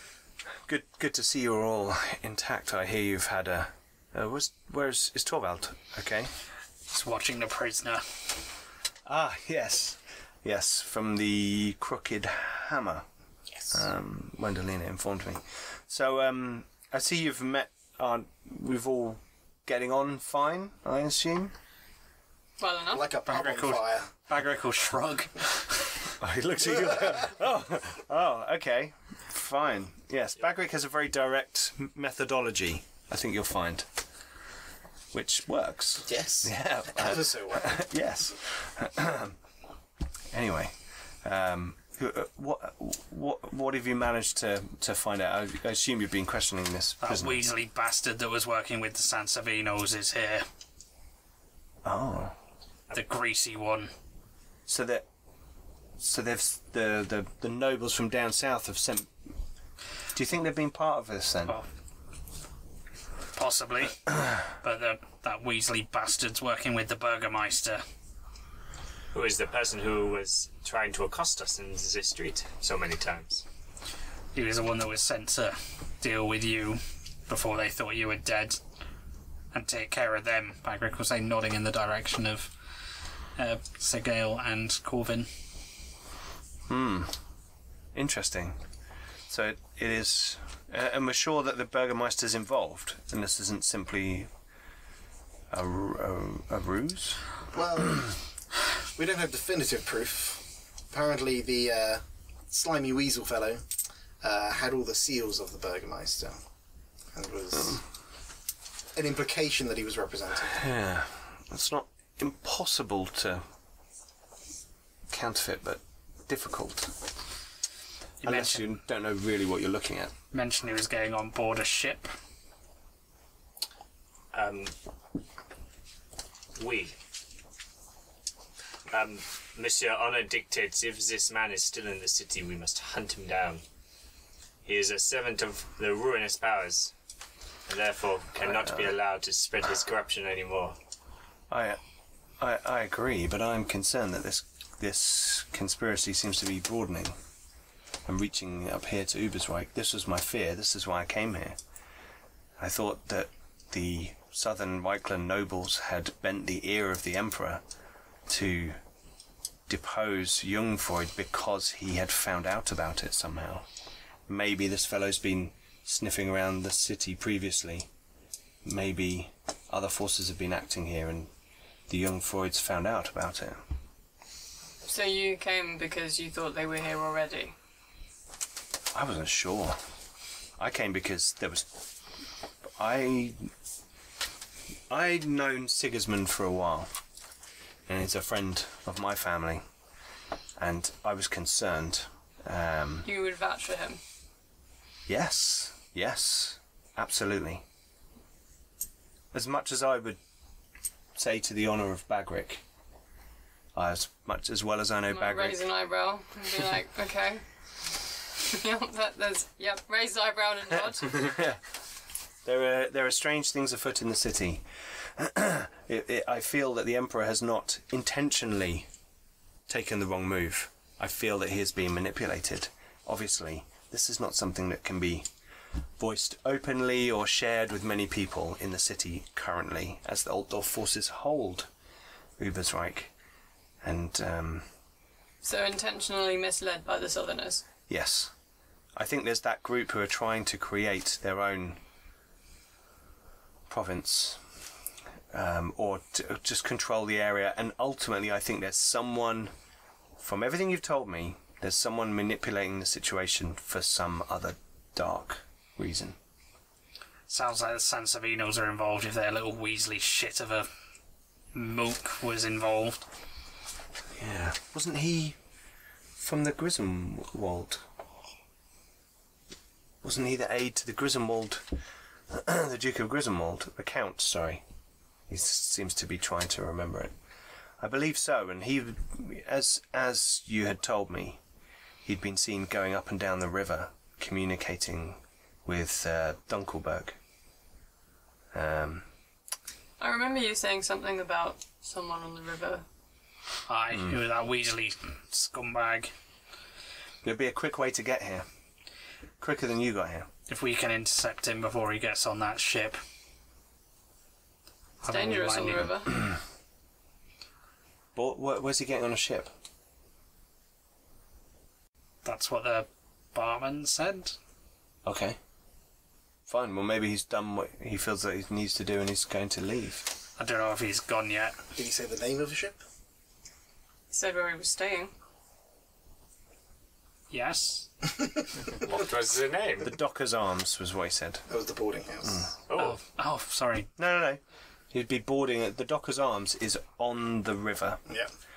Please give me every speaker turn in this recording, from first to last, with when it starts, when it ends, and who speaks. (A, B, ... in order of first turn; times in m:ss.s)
0:00.7-0:06.3 A
0:06.9-0:08.1 B
0:09.0-0:13.0 A
0:13.7-0:21.5 A
0:22.6-0:23.2 C
0:22.9-0:24.1 D
0:23.2-0:26.1 B
0:26.2-0:33.9 A
0:35.1-0:39.4 A
0:36.0-0:37.8 D
0:40.3-0:47.4 A
0:47.0-0:50.4 B
0:51.8-0:52.3 A
0:52.9-0:53.9 B
0:54.7-0:55.0 A
0:56.0-0:59.1 A
1:00.1-1:01.6 A
1:03.3-1:07.8 B
1:09.1-1:13.4 E
1:14.3-1:18.6 B
1:19.5-1:22.5 B
1:23.4-1:25.3 B
1:26.7-1:27.2 A
1:27.9-1:28.6 A
1:29.3-1:34.3 A
1:35.5-1:37.2 A
1:37.5-1:38.1 D
1:39.0-1:43.6 D
1:44.2-1:46.4 D
1:47.1-1:47.8 D
1:48.9-1:50.6 D
1:50.5-1:53.4 A
1:55.1-1:56.9 A
1:58.2-1:58.7 B
1:58.2-2:00.1 A
2:00.3-2:02.1 B
2:04.3-2:04.7 E
2:06.6-2:07.0 E
2:08.9-2:13.6 E
2:14.6-2:16.9 E
2:17.7-2:20.8 E
2:18.4-2:18.9 A
2:21.5-2:21.8 A
2:22.4-2:27.2 A
2:28.0-2:31.6 A
2:32.6-2:37.6 A
2:38.3-2:38.8 A
2:39.7-2:43.6 A
2:44.3-2:47.9 A
2:48.6-2:51.3 A
2:51.9-2:53.6 A
2:54.9-2:57.5 C
2:58.9-2:59.8 A
3:00.6-3:01.8 A
3:02.8-3:03.5 A
3:04.9-3:06.9 A
3:07.9-3:09.6 A
3:10.6-3:13.1 A
3:13.0-3:14.0 C
3:15.1-3:17.6 A
3:19.3-3:20.2 A
3:21.2-3:22.6 A
3:23.7-3:25.6 A
3:25.1-3:27.4 C
3:28.4-3:31.3 C
3:31.0-3:31.6 A
3:32.4-3:34.6 A
3:35.2-3:38.9 A
3:39.7-3:45.3 A
3:46.0-3:51.7 A
3:52.4-3:53.1 A
3:53.8-3:54.6 A
3:55.4-3:57.6 C
3:57.9-3:58.3 A
3:59.0-4:01.8 A
4:03.7-4:04.4 A
4:05.3-4:09.5 A
4:10.2-4:16.2 A
4:17.3-4:20.7 B
4:21.5-4:23.0 B
4:24.2-4:25.4 A
4:26.2-4:27.8 A
4:30.0-4:31.7 A
4:32.3-4:34.6 A
4:35.3-4:37.1 A
4:37.8-4:41.4 A
4:42.0-4:47.2 A
4:48.5-4:49.0 A
4:50.0-4:52.8 C
4:53.7-4:56.1 B
4:57.2-4:58.4 A
4:59.4-5:00.3 A
5:00.5-5:03.0 B
5:05.0-5:06.0 B
5:05.1-5:06.2 C
5:08.1-5:09.5 A
5:12.2-5:14.4 B
5:15.0-5:15.4 A
5:16.5-5:20.1 A
5:20.4-5:21.6 B
5:21.8-5:22.8 D
5:24.1-5:25.1 C
5:27.3-5:28.4 B
5:28.7-5:30.0 E
5:29.8-5:31.4 A
5:31.5-5:32.4 D
5:32.3-5:32.5 A
5:32.7-5:33.0 E
5:32.7-5:33.9 B
5:34.0-5:34.4 A
5:34.9-5:38.0 A